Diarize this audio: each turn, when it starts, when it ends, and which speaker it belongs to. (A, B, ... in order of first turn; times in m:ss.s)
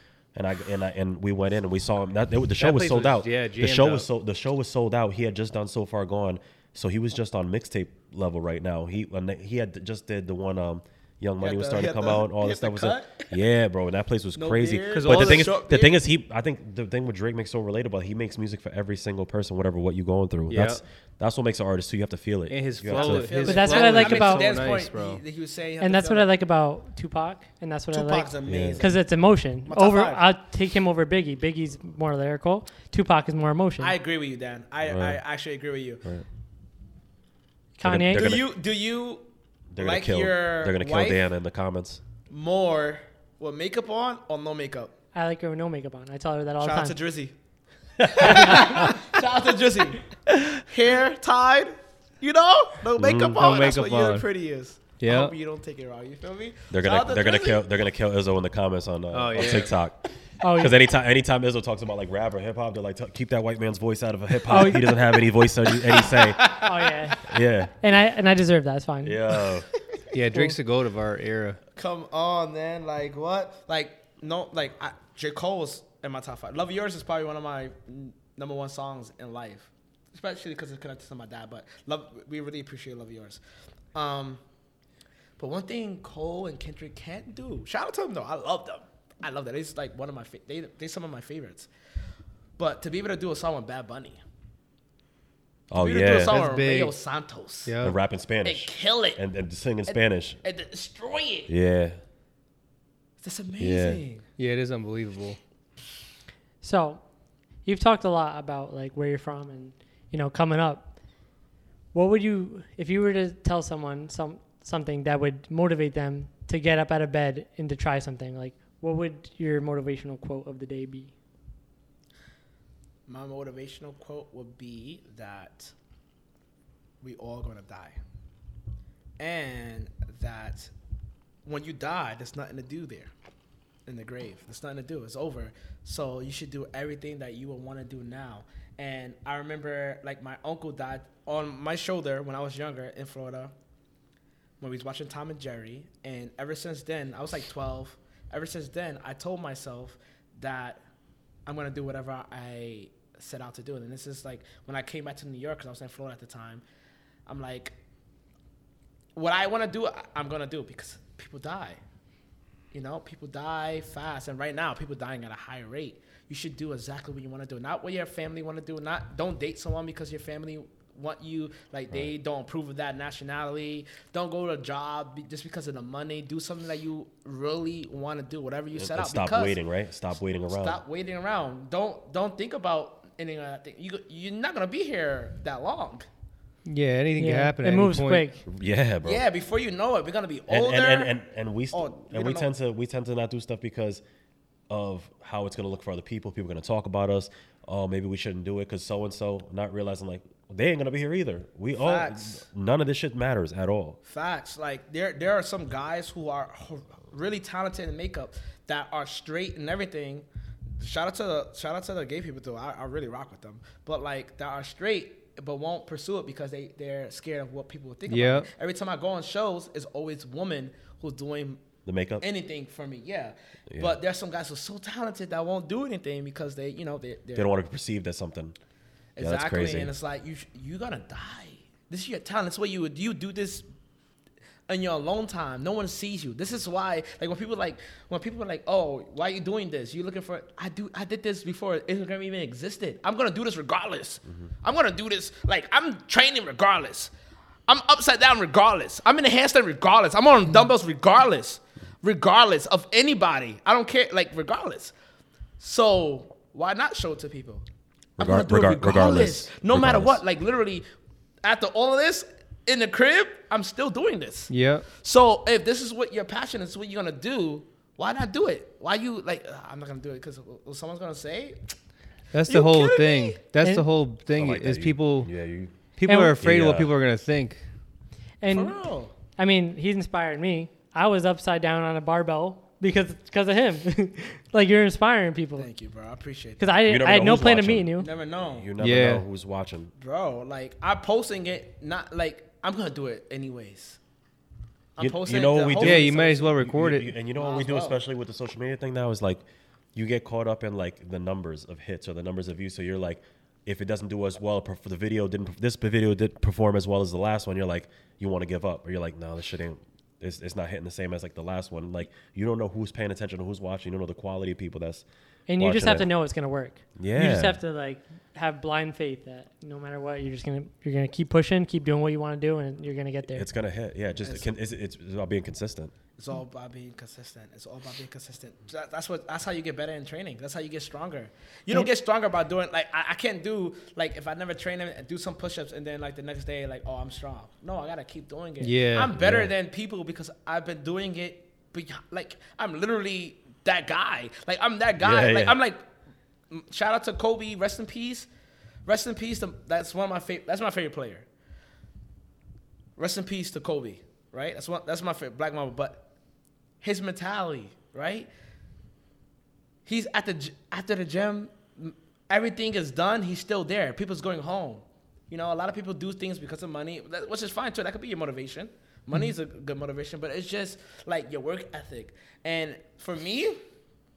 0:00.3-0:23.4 A
0:02.6-0:04.1 B
0:11.4-0:13.3 C
0:14.3-0:16.0 C
0:14.9-0:15.5 B
0:20.5-0:20.8 B
0:22.5-0:25.2 B
0:22.9-0:26.3 C
0:23.4-0:24.5 D
0:25.8-0:33.9 D
0:27.9-0:29.0 C
0:28.5-0:28.8 A
0:29.6-0:30.2 C
0:33.8-0:36.0 C
0:34.8-0:35.2 A
0:37.8-0:38.4 D
0:37.8-0:38.5 A
0:38.1-0:39.2 C
0:39.7-0:42.0 A
0:39.8-0:41.2 C
0:42.3-0:44.9 C
0:45.1-0:47.0 D
0:46.6-0:47.3 C
0:48.0-0:50.1 C
0:48.4-0:48.8 D
0:50.6-0:57.6 C
0:53.0-0:53.4 A
0:53.4-0:54.3 B
0:55.0-0:55.3 B
0:56.7-1:06.7 A
0:59.1-0:59.8 B
1:00.4-1:00.8 D
1:04.5-1:05.0 D
1:06.1-1:06.9 C
1:06.4-1:09.4 D
1:07.2-1:07.7 A
1:09.0-1:09.7 A
1:10.1-1:11.6 B
1:11.8-1:23.4 C
1:23.9-1:24.4 C
1:25.4-1:31.7 C
1:32.6-1:34.2 C
1:35.7-1:36.4 A
1:35.7-1:37.7 C
1:36.2-1:36.9 B
1:37.6-1:38.0 B
1:37.8-1:40.4 A
1:38.4-1:39.2 C
1:39.9-1:41.5 C
1:41.5-1:42.0 A
1:43.2-1:44.2 C
1:43.6-1:44.0 A
1:44.4-1:45.4 B
1:46.6-1:47.0 D
1:47.6-1:50.9 D
1:51.9-2:01.1 D
2:03.1-2:05.7 C
2:07.0-2:08.0 C
2:09.2-2:10.7 C
2:11.4-2:13.1 C
2:13.9-2:23.5 C
2:24.6-2:30.8 C
2:31.4-2:36.6 C
2:37.3-2:37.7 C
2:39.1-2:41.8 C
2:42.7-2:59.6 C
2:58.7-3:00.8 A
3:00.5-3:06.0 C
3:06.7-3:08.2 B
3:07.2-3:08.4 D
3:08.4-3:09.2 A
3:09.0-3:11.1 C
3:10.5-3:14.0 A
3:11.7-3:12.5 C
3:14.7-3:24.0 A
3:21.8-3:22.4 C
3:24.0-3:30.3 C
3:30.8-3:41.6 C
3:38.1-3:38.5 B
3:41.9-3:42.2 A
3:42.2-3:47.5 C
3:43.7-3:44.0 A
3:47.4-3:48.6 A
3:49.2-3:53.6 C
3:49.2-3:49.9 A
3:54.7-4:07.1 C
4:07.7-4:14.9 C
4:15.6-4:17.6 C
4:18.2-4:20.2 A
4:18.2-4:20.8 C
4:21.4-4:31.6 C
4:24.5-4:24.9 B
4:32.3-4:35.3 B
4:32.5-4:33.4 C
4:33.6-4:33.9 D
4:34.3-4:35.7 A
4:36.0-4:37.6 B
4:36.0-4:36.4 D
4:36.4-4:36.9 A
4:38.4-4:38.8 D
4:38.5-4:39.1 C
4:39.4-4:45.7 D
4:45.6-4:46.7 C
4:46.6-4:48.1 D
4:46.9-4:49.9 A
4:48.0-4:48.7 C
4:48.8-4:49.2 B
4:50.0-4:54.0 C
4:55.0-4:56.6 C
4:55.0-5:15.0 A
4:55.8-4:57.1 B
4:57.4-4:58.0 C
5:15.5-5:23.5 D
5:15.6-5:16.1 A
5:17.0-5:17.6 A
5:23.3-5:25.9 A
5:24.2-5:24.5 C
5:26.2-5:45.8 C
5:38.6-5:39.2 B
5:39.2-5:39.5 A
5:45.0-5:45.6 A
5:46.5-5:48.3 C
5:48.9-5:51.3 C
5:53.0-5:56.1 C
5:56.8-5:58.3 C
5:59.9-6:13.6 C